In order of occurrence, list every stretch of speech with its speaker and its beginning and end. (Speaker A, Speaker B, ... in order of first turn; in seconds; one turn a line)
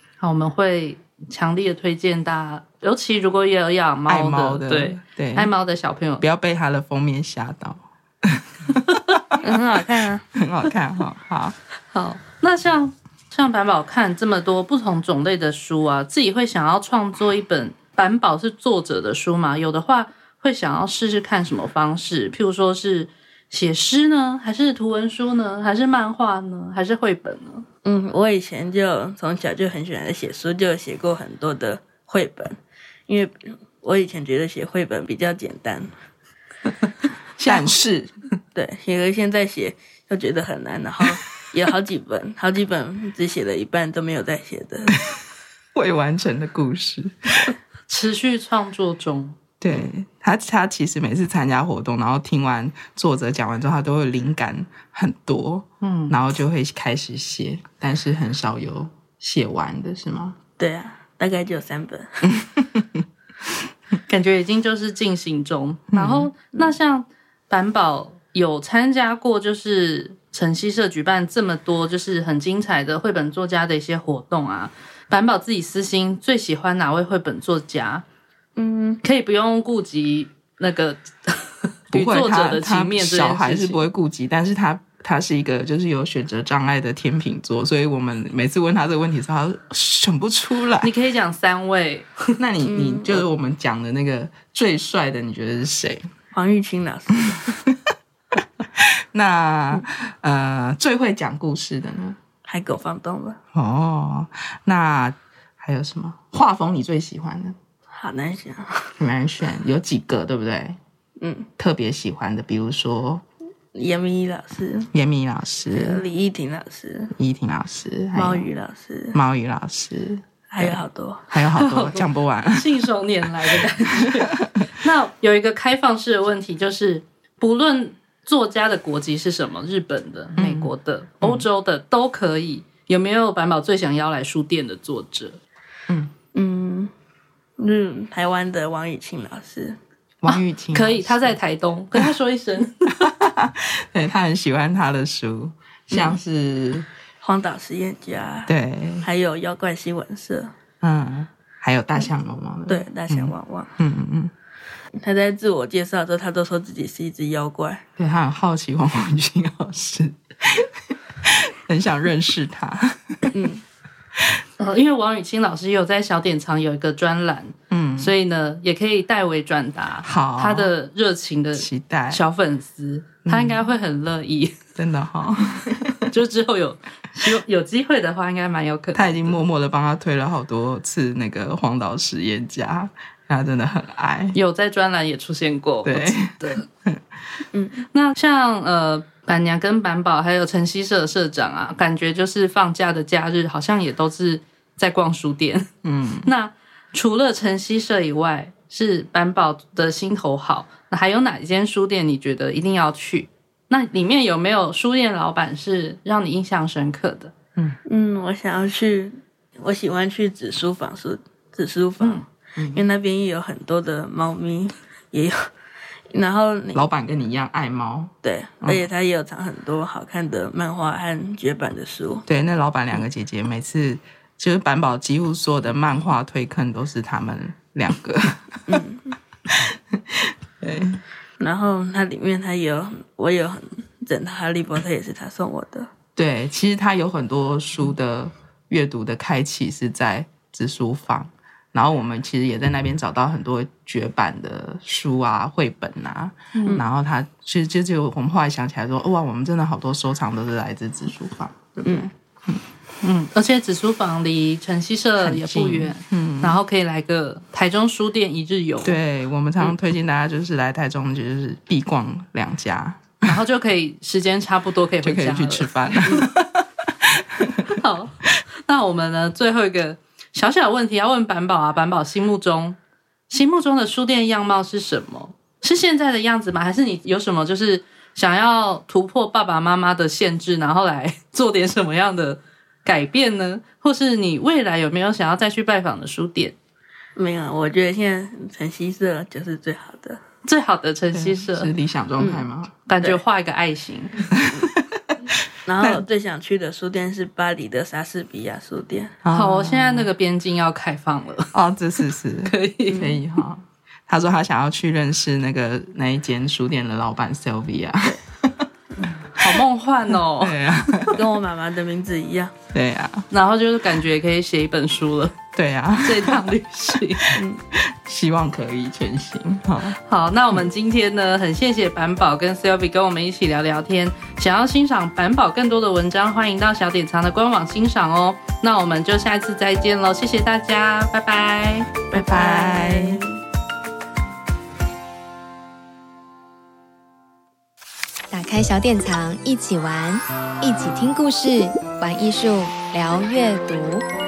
Speaker A: 0.2-6.2
Speaker B: 4.1-5.5
Speaker B: 6.2-9.4
Speaker C: 9.4-10.2
Speaker B: 10.3-11.6
Speaker A: 11.9-27.6
Speaker C: 27.9-35.9
Speaker B: 37.4-38.1
Speaker A: 37.4-37.8
Speaker C: 38.5-45.0
Speaker B: 45.8-47.5
Speaker A: 47.9-49.4
Speaker B: 49.6-60.4
Speaker A: 55.8-56.2
Speaker C: 60.6-62.3
Speaker A: 64.0-78.0
Speaker B: 65.9-66.3
Speaker C: 78.6-79.0
Speaker A: 79.0-83.8
Speaker B: 81.9-90.9
Speaker A: 90.8-92.3
Speaker B: 92.4-96.0
Speaker C: 92.6-93.2
Speaker C: 96.3-97.4
Speaker B: 97.3-97.7
Speaker B: 98.8-102.2
Speaker C: 102.4-103.4
Speaker B: 103.5-107.6
Speaker C: 107.9-108.9
Speaker B: 109.0-110.8
Speaker C: 111.2-111.5
Speaker B: 111.6-113.2
Speaker C: 113.8-114.9
Speaker B: 114.9-116.0
Speaker C: 115.7-117.2
Speaker B: 117.2-118.5
Speaker C: 118.2-119.2
Speaker B: 119.1-122.9
Speaker C: 120.5-121.4
Speaker A: 121.5-135.4
Speaker B: 130.4-131.5
Speaker B: 135.9-136.1
Speaker C: 136.3-136.9
Speaker C: 137.6-139.8
Speaker B: 140.2-141.4
Speaker A: 140.7-143.1
Speaker B: 143.0-146.9
Speaker C: 145.9-146.2
Speaker C: 147.2-150.5
Speaker B: 148.5-149.1
Speaker B: 150.8-154.3
Speaker C: 152.7-153.7
Speaker C: 155.0-157.8
Speaker B: 158.0-163.3
Speaker C: 163.3-163.6
Speaker A: 164.6-174.6
Speaker B: 167.7-168.2
Speaker B: 170.0-170.8
Speaker B: 171.5-172.2
Speaker B: 173.3-173.7
Speaker B: 174.8-176.1
Speaker A: 176.1-179.4
Speaker B: 178.9-184.4
Speaker A: 184.3-186.7
Speaker B: 185.8-187.0
Speaker C: 187.5-187.8
Speaker A: 187.9-195.7
Speaker B: 195.8-196.3
Speaker A: 196.2-207.3
Speaker C: 207.9-215.4
Speaker B: 212.6-212.8
Speaker C: 216.1-216.9
Speaker B: 216.7-218.9
Speaker C: 218.2-222.3
Speaker B: 222.3-228.8
Speaker C: 228.7-229.2
Speaker B: 229.5-231.0
Speaker C: 231.4-235.9
Speaker B: 236.2-251.8
Speaker C: 246.5-246.9
Speaker C: 251.8-252.1
Speaker A: 253.0-259.0
Speaker B: 255.2-256.6
Speaker B: 258.8-263.4
Speaker A: 263.2-266.2
Speaker B: 265.0-267.8
Speaker A: 267.7-272.8
Speaker A: 273.3-286.6
Speaker C: 287.2-290.2
Speaker A: 290.4-291.7
Speaker B: 291.1-292.7
Speaker C: 292.2-292.5
Speaker A: 292.9-294.3
Speaker B: 294.3-296.0
Speaker C: 295.7-299.2
Speaker B: 299.2-300.1
Speaker A: 299.3-301.5
Speaker B: 301.5-309.6
Speaker A: 302.4-303.1
Speaker C: 302.9-303.2
Speaker A: 309.2-310.6
Speaker B: 310.3-311.3
Speaker C: 311.1-312.5
Speaker B: 312.7-313.3
Speaker A: 313.3-315.4
Speaker B: 315.5-316.4
Speaker A: 316.0-317.2
Speaker B: 317.3-320.0
Speaker C: 317.4-317.6
Speaker A: 320.0-331.9
Speaker C: 332.1-333.3
Speaker B: 332.1-333.2
Speaker D: 338.3-344.1